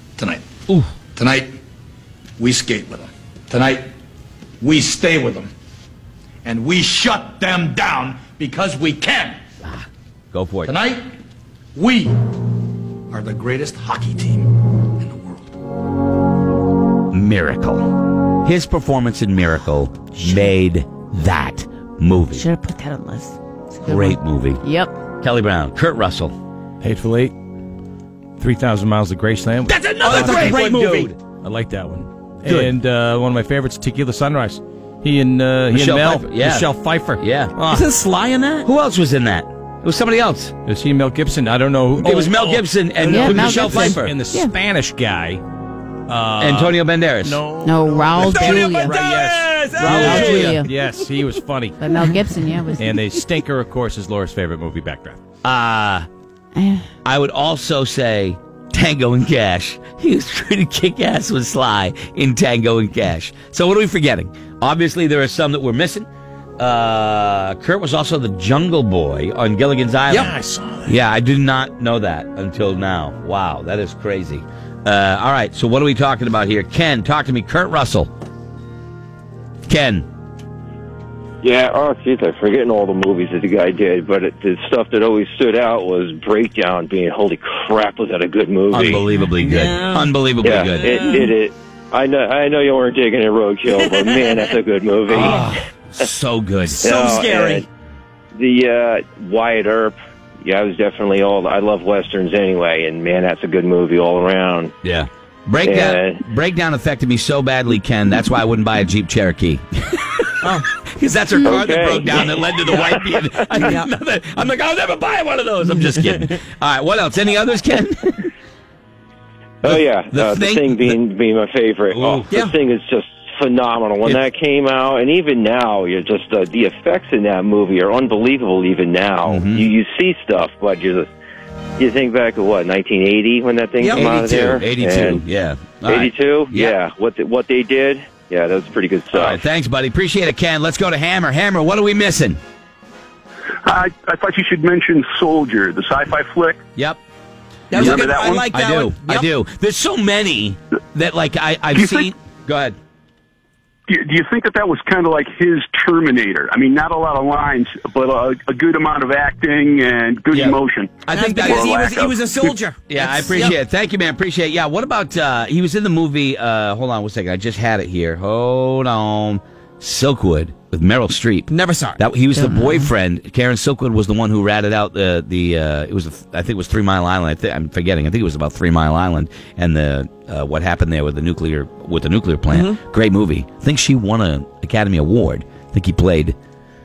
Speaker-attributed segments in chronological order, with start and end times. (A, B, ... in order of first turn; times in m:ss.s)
0:00.2-0:00.4 A
0:01.2-0:01.6 A
0:02.4-0:03.9 A
0:04.6-0:05.5 A
0:06.4-0:09.4 A
0:09.6-0:10.7 B
0:10.7-0:11.1 A
0:11.8-0:12.2 A
0:13.1-0:15.5 A
0:17.1-0:22.4 B
0:22.4-0:24.9 C
0:23.9-0:24.6 B
0:25.2-0:26.3 B
0:26.8-0:27.3 D
0:28.4-0:30.5 D
0:29.6-0:31.1 B
0:30.0-0:31.1 E
0:31.3-0:37.8 D
0:35.7-0:37.8 B
0:37.7-0:38.7 E
0:38.6-0:40.6 B
0:40.6-0:45.4 D
0:42.0-0:44.2 B
0:43.1-0:44.5 C
0:46.1-0:55.2 D
0:46.4-0:47.4 B
0:47.6-0:48.9 C
0:48.2-0:50.6 E
0:49.8-0:50.6 B
0:51.8-0:52.9 C
0:55.4-0:56.1 B
0:56.6-0:56.9 C
0:57.0-1:06.1 B
1:06.6-1:18.1 B
1:19.7-1:20.1 B
1:21.4-1:29.0 F
1:28.7-1:31.2 B
1:29.5-1:30.1 E
1:30.4-1:35.5 F
1:35.1-1:37.0 B
1:36.8-1:37.7 F
1:36.8-1:37.7 E
1:38.4-1:44.7 F
1:44.8-1:58.3 B
1:45.6-1:46.2 F
1:51.5-1:53.4 F
1:53.6-1:53.9 E
1:59.6-2:11.1 F
1:59.6-2:01.0 B
2:01.9-2:02.3 B
2:09.2-2:09.7 B
2:11.8-2:15.2 F
2:13.8-2:14.2 E
2:14.0-2:16.8 B
2:15.8-2:19.4 F
2:19.1-2:22.4 B
2:23.6-2:26.6 G
2:27.7-2:29.3 E
2:27.8-2:32.8 B
2:27.8-2:28.5 G
2:31.7-2:32.1 G
2:33.9-2:42.6 G
2:40.3-2:41.7 B
2:41.1-2:43.6 E
2:42.9-3:06.4 B
2:51.5-2:52.0 E
2:52.4-2:52.9 C
3:02.5-3:02.8 E